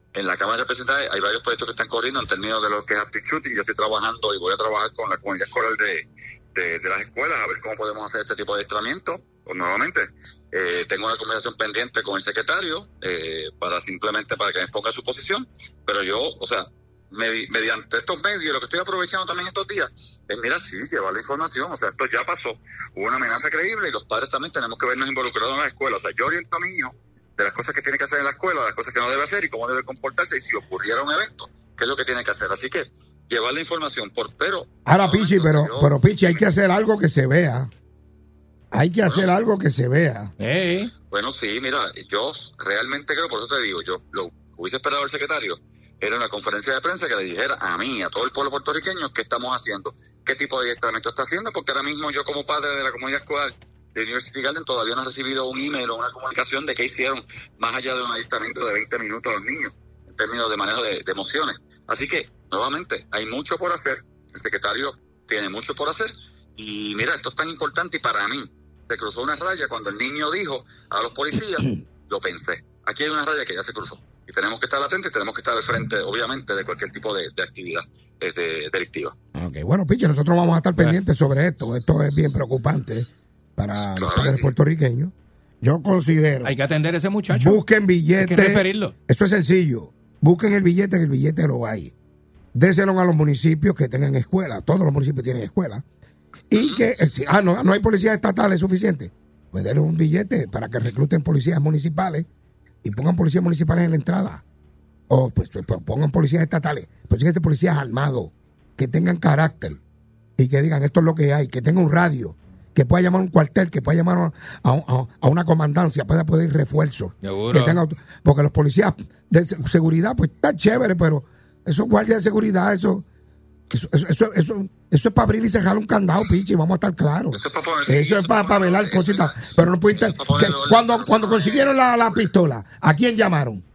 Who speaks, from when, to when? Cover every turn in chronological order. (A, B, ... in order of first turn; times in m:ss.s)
0:00.1-0:36.4 A
0:34.8-0:37.7 B
0:38.7-0:40.3 B
0:39.0-0:39.3 A
0:40.4-0:40.9 C
0:41.1-1:19.1 A
1:19.3-1:26.6 B
1:23.9-1:24.5 A
1:26.4-1:27.6 C
1:27.3-1:31.9 B
1:28.2-1:28.9 C
1:32.5-1:35.8 B
1:36.5-1:42.3 B
1:36.6-1:36.8 A
1:42.8-1:44.4 B
1:45.1-1:49.8 B
1:50.4-2:03.0 B
1:57.2-1:57.8 C
2:03.7-2:13.6 B
2:07.3-2:12.3 A